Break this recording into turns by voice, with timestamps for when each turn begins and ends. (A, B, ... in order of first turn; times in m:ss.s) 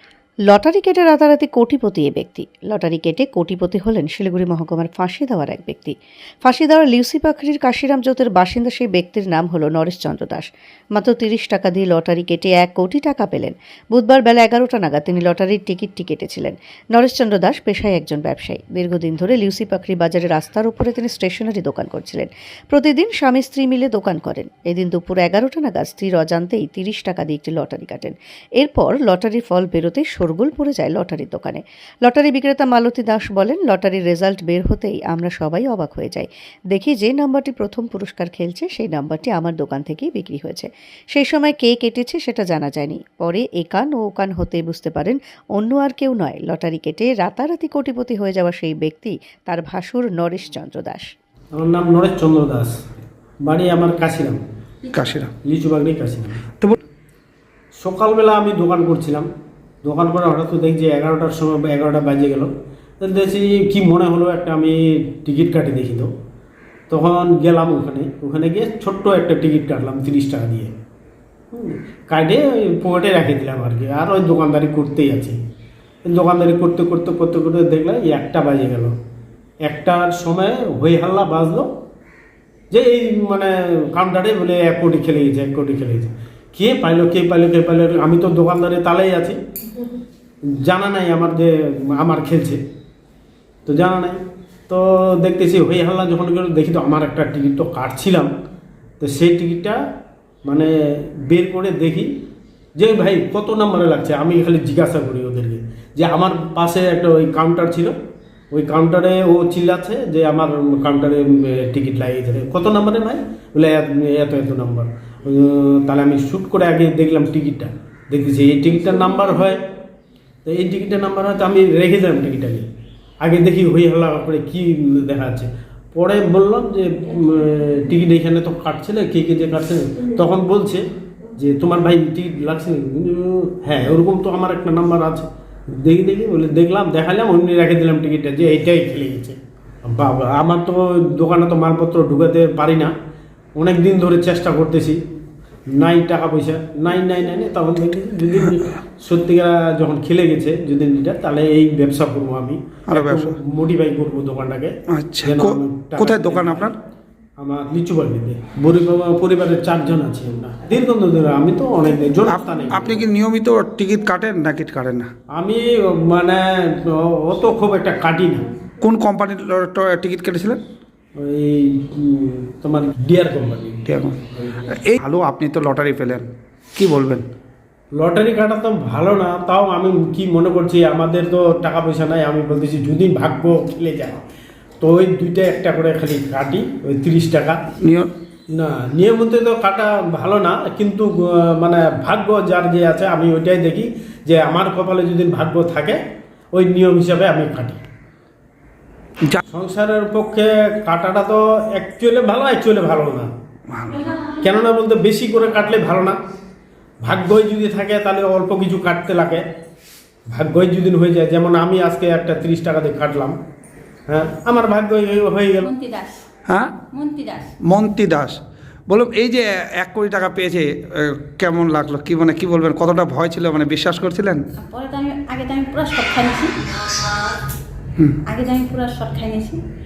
0:00.5-0:51.0 A
0:51.5-0:52.8 B
0:53.4-0:54.4 B
0:54.9-0:55.3 C
0:55.4-0:56.4 B
0:57.8-0:59.3 B
0:59.8-1:06.1 B
1:06.9-1:10.8 B
1:11.5-1:15.4 B
1:16.1-1:19.0 B
1:19.6-1:21.7 B
1:22.7-1:29.4 B
1:30.6-1:32.6 B
1:33.7-1:38.3 B
1:39.0-1:39.8 B
1:40.5-1:40.7 B
1:41.2-1:42.1 B
1:42.8-1:47.9 B
1:48.5-1:59.6 B
2:00.4-2:02.6 B
2:03.2-2:10.8 B
2:11.4-2:22.9 B
2:23.6-2:25.0 B
2:25.7-2:36.7 B
2:32.9-2:33.3 C
2:34.9-2:36.8 C
2:37.4-2:43.0 B
2:42.3-2:45.1 C
2:45.3-2:48.5 B
2:48.8-2:50.6 C
2:51.2-2:53.8 B
2:53.9-2:57.3 C
2:57.9-3:04.2 B
3:04.8-3:07.6 B
3:07.8-3:08.1 C
3:08.5-3:16.0 B
3:16.5-3:17.8 B
3:19.5-3:23.3 B
3:23.7-3:24.1 C
3:24.3-3:26.2 B
3:27.0-3:29.4 B
3:30.3-3:33.4 B
3:34.1-3:35.7 B
3:35.6-3:36.2 D
3:36.5-3:36.8 C
3:36.9-3:37.5 D
3:37.7-3:38.4 C
3:38.9-3:44.4 C
3:44.6-3:46.5 D
3:48.3-3:49.6 D